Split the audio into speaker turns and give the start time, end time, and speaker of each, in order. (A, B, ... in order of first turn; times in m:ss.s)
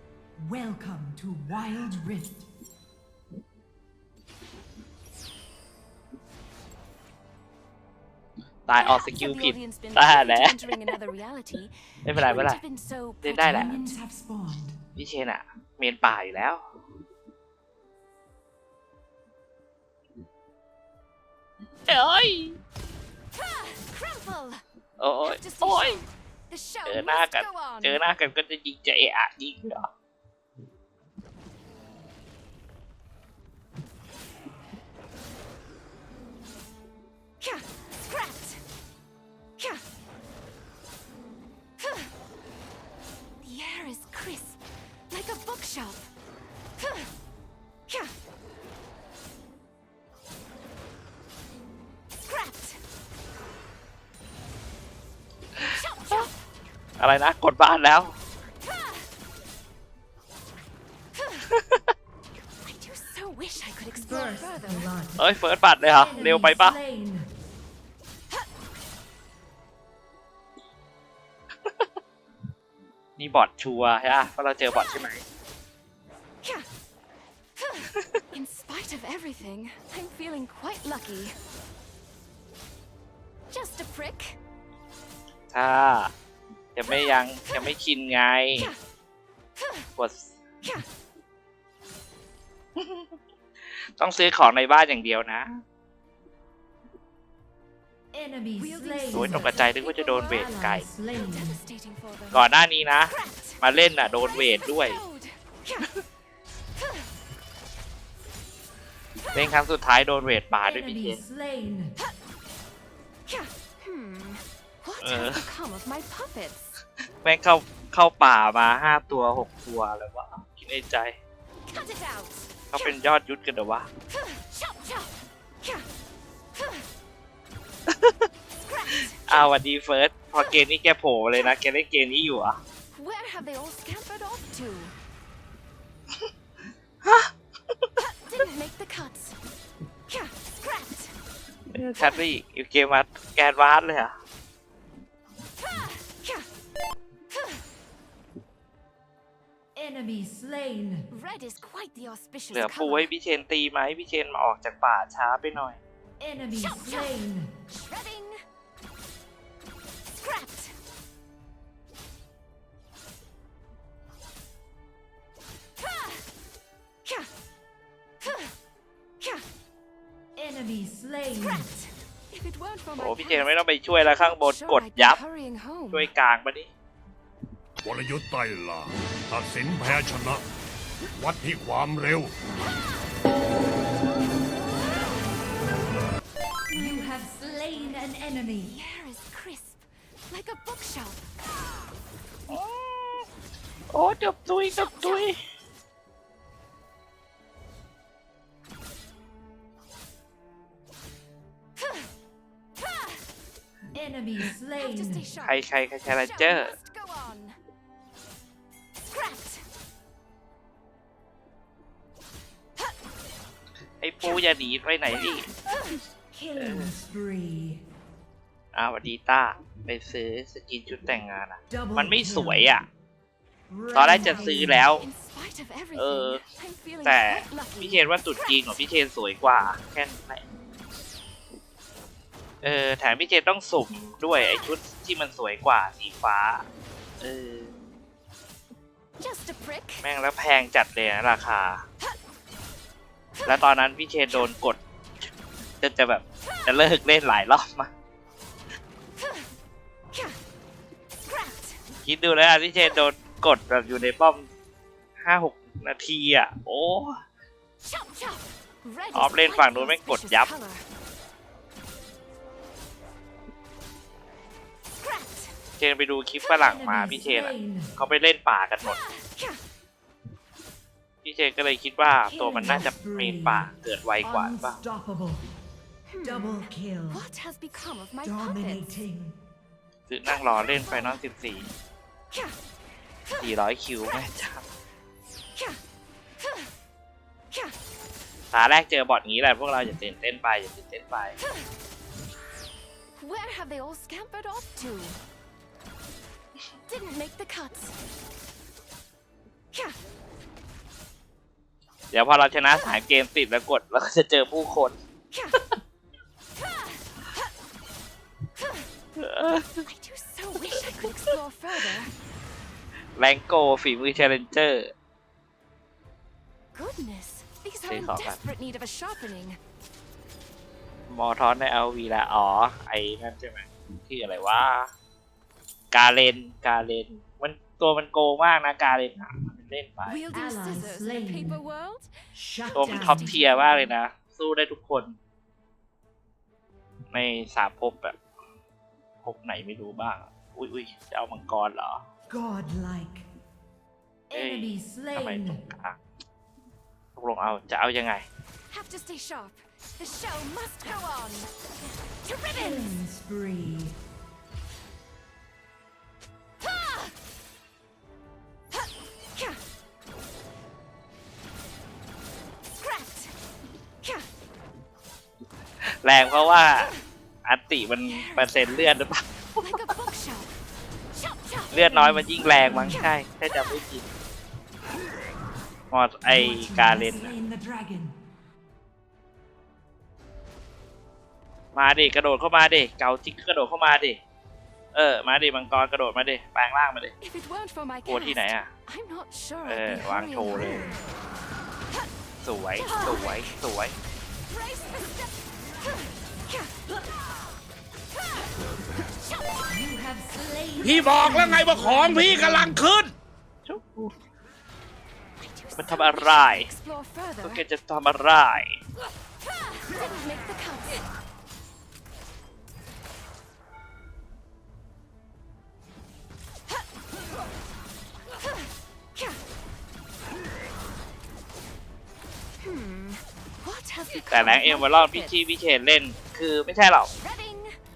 0:00.4-0:02.5 A
0:08.7-0:10.6 B
0:08.8-0:13.8 C
0:12.0-0:12.6 B
0:13.2-0:13.8 B
0:13.5-0:14.8 A
0:15.0-0:16.6 B
0:21.9-0:22.6 B
0:23.9-0:24.6 C
0:25.0-0:26.0 B
0:25.2-0:28.0 C
0:26.9-0:29.9 B
0:43.4-0:46.1 C
0:55.6-0:56.3 C
0:57.0-0:58.2 B
1:01.5-1:01.8 B
1:02.6-1:04.9 C
1:04.0-1:05.2 A
1:05.2-1:06.8 B
1:06.0-1:07.3 A
1:13.2-1:15.2 B
1:18.3-1:21.4 C
1:23.5-1:24.4 C
1:25.5-1:26.1 B
1:26.8-1:28.7 B
1:30.0-1:30.4 B
1:32.8-1:33.1 B
1:33.7-1:35.6 B
1:38.1-1:39.7 A
1:38.6-1:40.5 C
1:39.1-1:40.9 B
1:40.3-1:41.6 A
1:41.1-1:42.4 C
1:42.3-1:45.0 B
1:43.2-1:45.4 C
1:49.3-1:51.2 B
1:50.6-1:51.9 A
1:53.8-1:56.8 C
1:55.0-1:55.5 B
1:57.2-2:01.2 B
2:01.7-2:02.5 C
2:02.7-2:03.9 B
2:07.9-2:08.3 B
2:09.3-2:12.6 B
2:12.9-2:14.9 C
2:17.0-2:17.3 B
2:18.3-2:19.4 C
2:20.1-2:21.1 C
2:21.7-2:24.1 B
2:29.8-2:31.1 A
2:31.1-2:33.1 C
2:32.5-2:35.8 B
2:36.2-2:37.5 A
2:37.7-2:38.4 C
2:50.4-2:51.7 A
2:52.3-2:56.1 C
2:53.0-2:55.2 B
2:55.9-2:56.7 B
2:57.8-3:00.5 D
3:01.2-3:02.4 D
3:02.5-3:02.8 C
3:06.7-3:07.2 C
3:06.7-3:08.8 A
3:08.6-3:11.3 C
3:12.5-3:13.3 B
3:13.9-3:15.4 B
3:23.9-3:25.2 A
3:24.8-3:25.5 C
3:25.4-3:26.8 B
3:26.2-3:27.6 C
3:34.0-3:35.5 B
3:36.3-3:37.8 A
3:36.6-3:36.9 B
3:38.7-3:42.9 B
3:41.7-3:42.7 A
3:43.7-3:44.9 A
3:43.9-3:45.1 B
3:44.2-3:48.0 C
3:46.0-3:46.4 B
3:47.0-3:50.4 B
3:52.6-3:56.6 B
3:57.2-3:57.7 B
3:59.2-4:00.0 C
4:00.0-4:01.8 B
4:03.5-4:04.8 B
4:05.8-4:07.9 B
4:12.0-4:14.5 B
4:15.2-4:17.2 B
4:18.0-4:20.8 C
4:19.1-4:20.5 B
4:25.8-4:29.0 B
4:26.6-4:27.9 A
4:31.2-4:34.8 B
4:32.3-4:33.7 A
4:34.2-4:35.5 A
4:36.1-4:39.0 C
4:36.2-4:37.2 A
4:38.2-4:39.4 A
4:40.1-4:41.7 B
4:43.4-4:44.6 B
4:48.5-4:51.4 B
4:53.2-4:55.2 C
4:56.9-4:58.0 C
5:02.1-5:05.0 B
5:09.2-5:09.8 B
5:09.8-5:12.1 C
5:13.2-5:14.9 B
5:16.8-5:19.6 C
5:17.9-5:18.4 B
5:21.1-5:24.9 B
5:25.9-5:30.2 B
5:30.1-5:32.1 C
5:30.3-5:31.6 A
5:32.3-5:33.3 A
5:32.7-5:33.9 C
5:32.8-5:35.2 B
5:37.1-5:38.2 B
5:39.2-5:42.0 B
5:42.3-5:43.3 A
5:44.3-5:46.0 B
5:44.5-5:45.6 A
5:47.2-5:48.3 B
5:48.7-5:51.5 C
5:52.2-5:52.9 C
5:52.5-5:54.0 A
6:06.0-6:06.9 B
6:07.5-6:09.8 B
6:08.1-6:08.5 C
6:09.6-6:10.5 C
6:11.7-6:14.1 B
6:11.8-6:13.1 A
6:15.9-6:17.3 B
6:16.3-6:18.2 A
6:21.8-6:24.2 B
6:24.9-6:27.1 B
6:27.2-6:30.9 C
6:28.1-6:28.7 B
6:29.6-6:30.9 B
6:32.4-6:33.9 B
6:32.8-6:33.5 C
6:34.5-6:35.3 C
6:39.7-6:42.9 A
6:41.0-6:43.1 E
6:43.6-6:44.1 B
6:45.4-6:47.6 C
6:45.8-6:46.7 B
6:47.4-6:48.8 B
6:50.0-6:51.0 C
7:02.6-7:05.3 C
7:04.3-7:07.1 B
7:07.2-7:07.8 C